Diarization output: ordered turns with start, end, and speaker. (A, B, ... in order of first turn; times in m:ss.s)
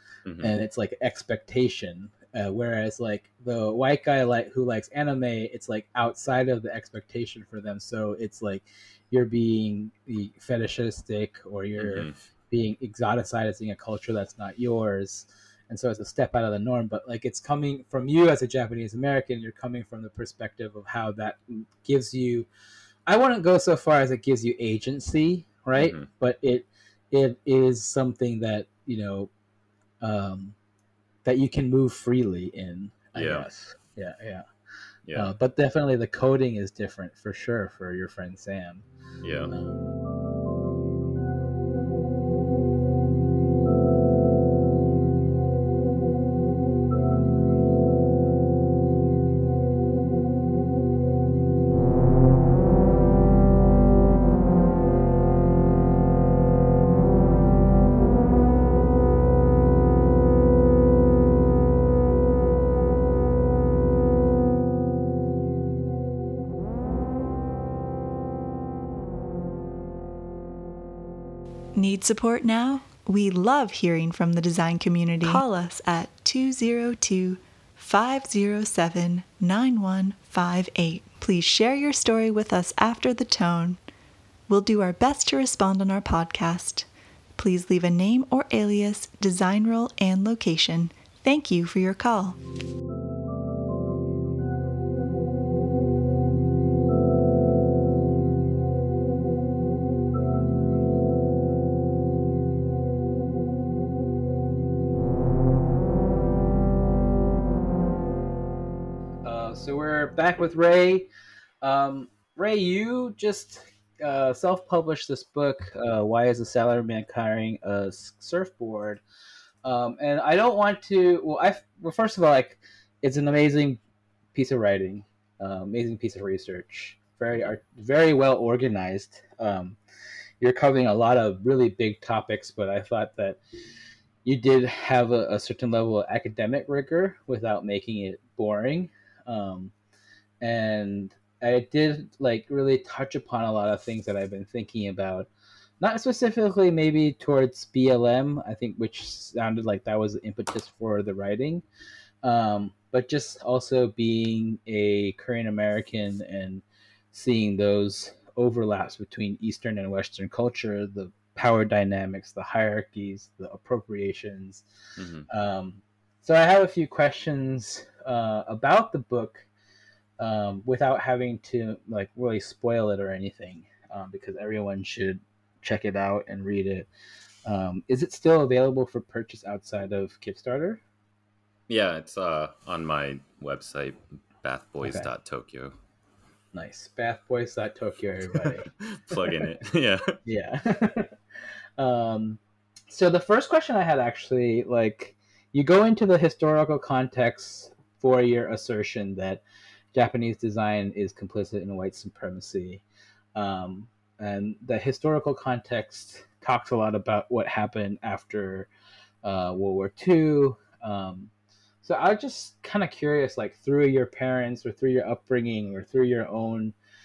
0:00.2-0:00.6 A
0:00.4-0:22.5 B
0:11.8-0:12.2 A
0:23.1-0:29.3 B
0:25.8-0:26.1 A
0:30.0-0:30.6 B
0:31.2-0:34.4 B
0:33.2-0:33.6 A
0:35.2-0:38.9 B
0:39.2-0:39.5 A
0:39.5-0:39.8 B
1:11.8-1:23.8 C
1:24.5-1:32.4 C
1:49.2-1:51.1 B
1:51.6-1:59.0 B
1:59.6-2:03.8 B
2:04.3-2:09.8 B
2:10.4-2:13.4 B
2:14.2-2:19.7 B
2:20.4-2:25.3 B
2:25.8-2:31.6 B
2:32.2-2:44.6 B
2:45.0-2:45.3 A
2:45.3-2:49.5 B
2:50.2-2:56.9 B
2:57.4-3:00.8 B
3:01.7-3:05.8 A
3:04.8-3:05.1 B
3:06.5-3:09.4 B
3:08.4-3:10.2 A
3:10.2-3:11.1 B
3:11.8-3:19.4 B
3:19.9-3:22.8 B
3:23.4-3:28.7 B
3:29.2-3:31.3 B
3:31.8-3:36.8 B